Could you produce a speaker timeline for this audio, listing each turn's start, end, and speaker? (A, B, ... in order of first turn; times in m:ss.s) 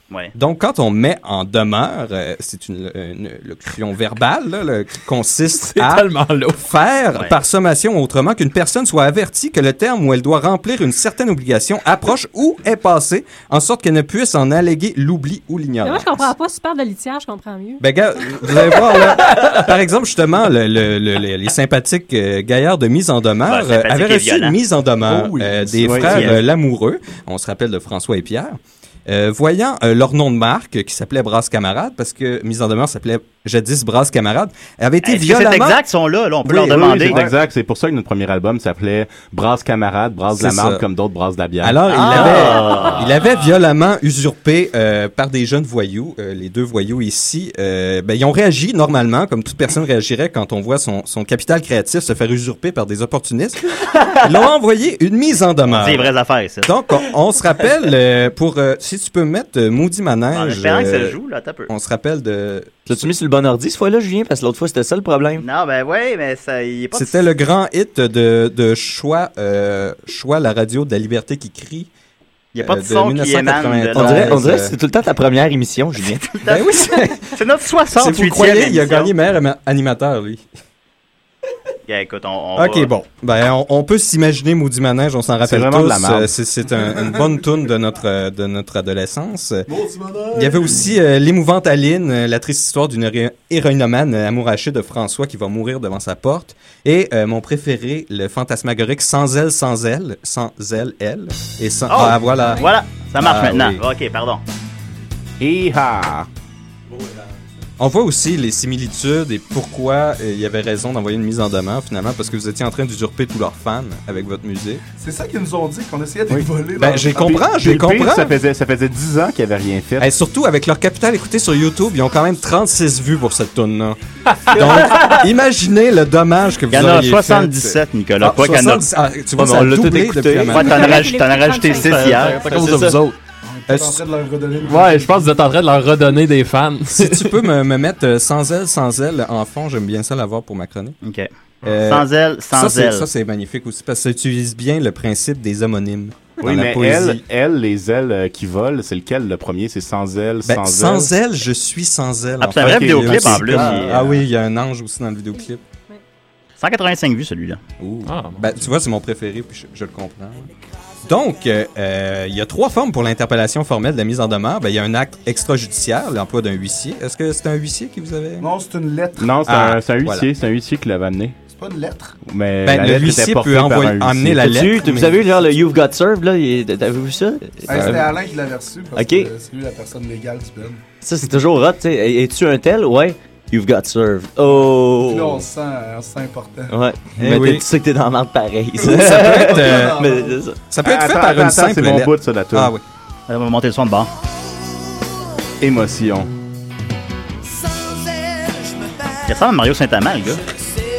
0:00.3-0:16.3 A
0:05.6-0:06.6 B
0:15.8-0:17.8 C
0:17.8-0:35.8 A
0:23.5-0:24.6 D
0:25.0-0:26.4 E
0:25.8-0:26.4 F
0:26.1-0:26.4 D
0:35.0-0:37.2 D
0:36.5-0:41.8 F
0:37.1-0:37.3 E
0:40.4-0:40.8 A
0:41.6-0:53.6 A
0:41.9-0:43.1 D
0:54.2-0:56.1 A
0:55.6-0:56.7 D
0:56.6-1:01.2 A
1:00.3-1:01.7 D
1:01.7-1:03.1 A
1:02.9-1:05.4 G
1:05.4-1:07.3 D
1:06.9-1:11.9 A
1:12.5-1:14.4 D
1:12.6-1:14.7 A
1:13.9-1:16.4 G
1:16.2-1:19.1 D
1:16.5-1:17.4 A
1:18.0-1:20.4 A
1:21.9-1:22.9 D
1:22.6-1:29.7 A
1:25.4-1:26.3 F
1:29.7-1:30.9 E
1:30.3-1:42.6 A
1:41.9-1:44.4 D
1:43.2-1:43.8 A
1:45.4-1:46.3 F
1:47.8-1:54.8 A
1:55.0-1:57.4 E
1:56.8-1:58.3 A
1:57.1-2:00.1 F
2:00.0-2:11.0 A
2:04.5-2:05.3 G
2:06.7-2:08.9 D
2:09.4-2:11.0 G
2:10.5-2:12.4 D
2:10.6-2:12.4 C
2:11.7-2:13.2 B
2:12.4-2:13.0 G
2:13.4-2:15.3 E
2:13.7-2:14.0 A
2:14.6-2:17.3 B
2:16.9-2:21.0 A
2:21.0-2:23.1 D
2:21.6-2:27.2 A
2:26.4-2:31.1 F
2:30.4-2:35.6 A
2:32.4-2:34.0 D
2:32.6-2:33.7 F
2:33.3-2:34.1 G
2:36.6-2:37.6 D
2:37.8-2:40.5 A
2:38.0-2:38.7 B
2:41.0-2:48.5 A
2:48.4-2:49.4 E
2:49.2-2:51.4 F
2:49.5-2:50.2 A
2:51.5-2:52.2 E
2:52.2-2:54.6 F
2:52.6-2:55.3 A
2:54.4-2:58.0 G
2:57.7-3:00.8 E
2:57.7-2:58.0 A
2:58.9-2:59.3 G
3:01.0-3:05.4 G
3:04.5-3:06.7 E
3:06.7-3:10.6 G
3:07.2-3:07.6 A
3:08.8-3:10.4 E
3:08.8-3:10.0 A
3:10.7-3:12.8 A
3:10.8-3:12.7 F
3:13.3-3:14.1 D
3:15.6-3:16.3 F
3:19.2-3:20.4 D